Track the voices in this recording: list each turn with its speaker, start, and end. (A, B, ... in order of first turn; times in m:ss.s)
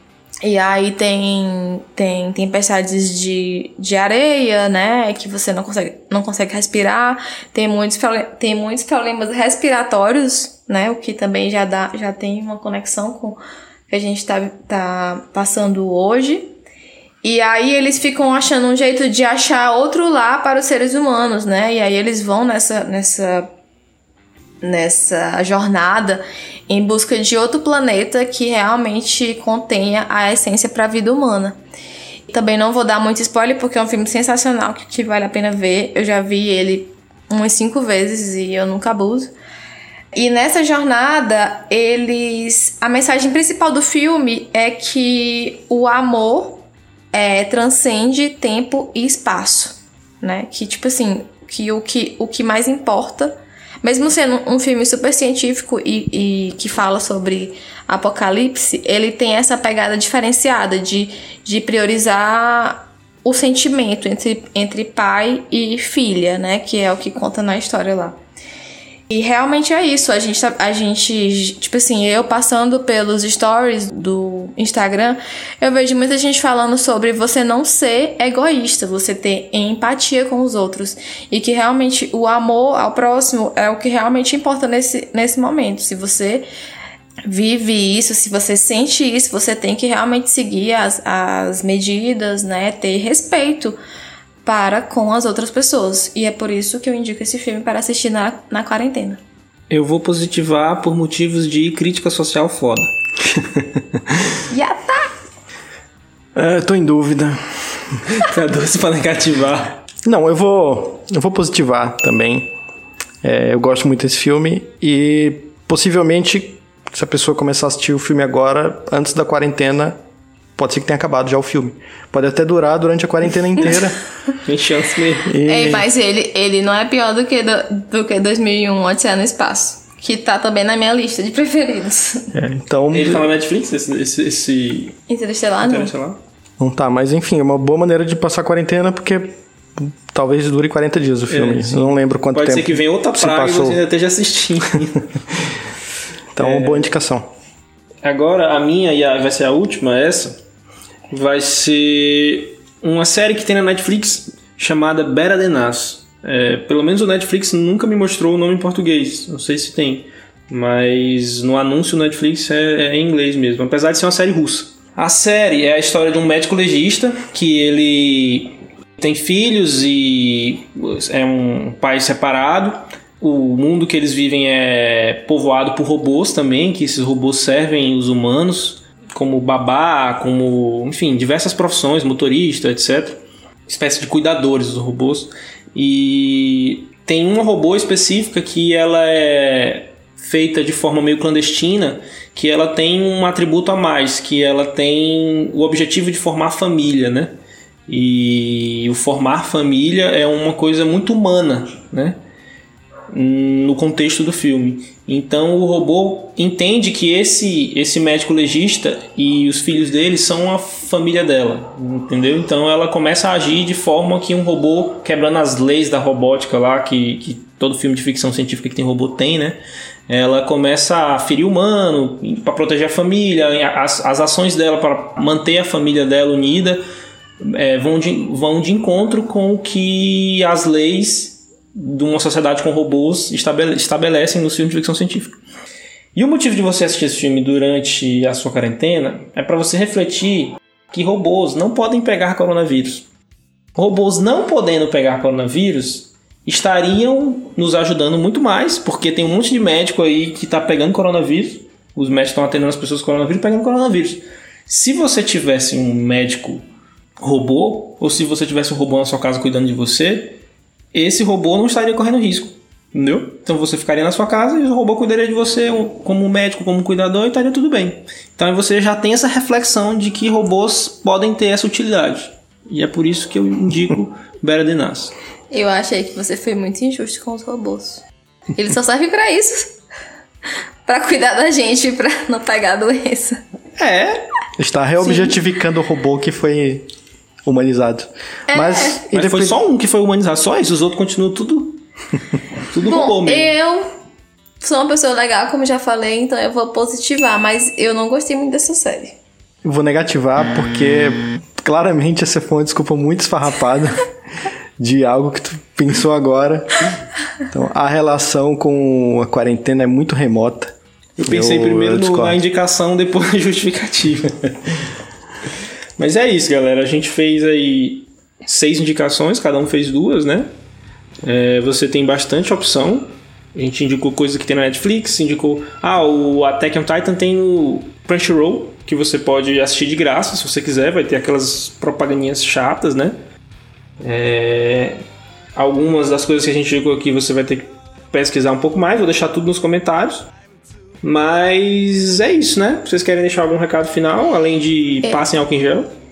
0:00.4-0:16.5 A
0:17.2-0:23.5 A
0:24.6-0:31.6 A
0:32.3-0:39.3 A
0:40.1-1:08.2 A
1:09.1-1:26.5 A
1:27.2-1:33.8 A
1:34.4-1:39.2 A
1:39.7-1:42.9 B
1:43.3-1:44.0 C
1:44.5-1:45.1 A
1:46.3-1:48.0 C
1:48.1-1:49.8 B
1:50.0-1:52.5 C
1:53.2-2:00.0 C
2:00.6-2:04.0 C
2:04.4-2:05.4 B
2:05.2-2:05.8 C
2:05.4-2:12.3 A
2:12.3-2:13.3 C
2:12.9-2:15.0 B
2:15.1-2:15.9 A
2:15.6-2:16.2 B
2:16.6-2:23.8 C
2:21.3-2:25.1 B
2:26.3-2:27.3 C
2:26.4-2:26.9 B
2:28.0-2:30.4 B
2:31.1-3:22.2 B
3:23.1-3:46.8 B
3:47.4-3:55.4 B
3:56.1-4:03.1 B
4:03.7-4:16.6 B
4:17.2-4:20.4 B
4:20.9-4:35.1 B
4:35.5-4:38.0 A
4:38.5-4:39.8 A
4:40.8-4:43.4 A
4:43.8-4:44.2 B
4:44.6-4:46.8 C
4:45.0-4:45.3 A
4:47.4-4:49.6 C
4:48.5-4:49.0 A
4:49.1-4:51.8 B
4:52.7-4:53.5 B
4:52.8-4:53.9 A
4:54.6-4:59.2 A
4:59.6-5:04.0 C
5:04.8-5:06.9 C
5:07.5-5:10.7 C
5:11.2-5:14.9 B
5:11.3-5:12.4 C
5:16.0-5:20.5 B
5:21.2-5:33.2 B
5:34.0-5:35.0 B
5:35.5-5:40.3 B
5:41.0-5:45.9 B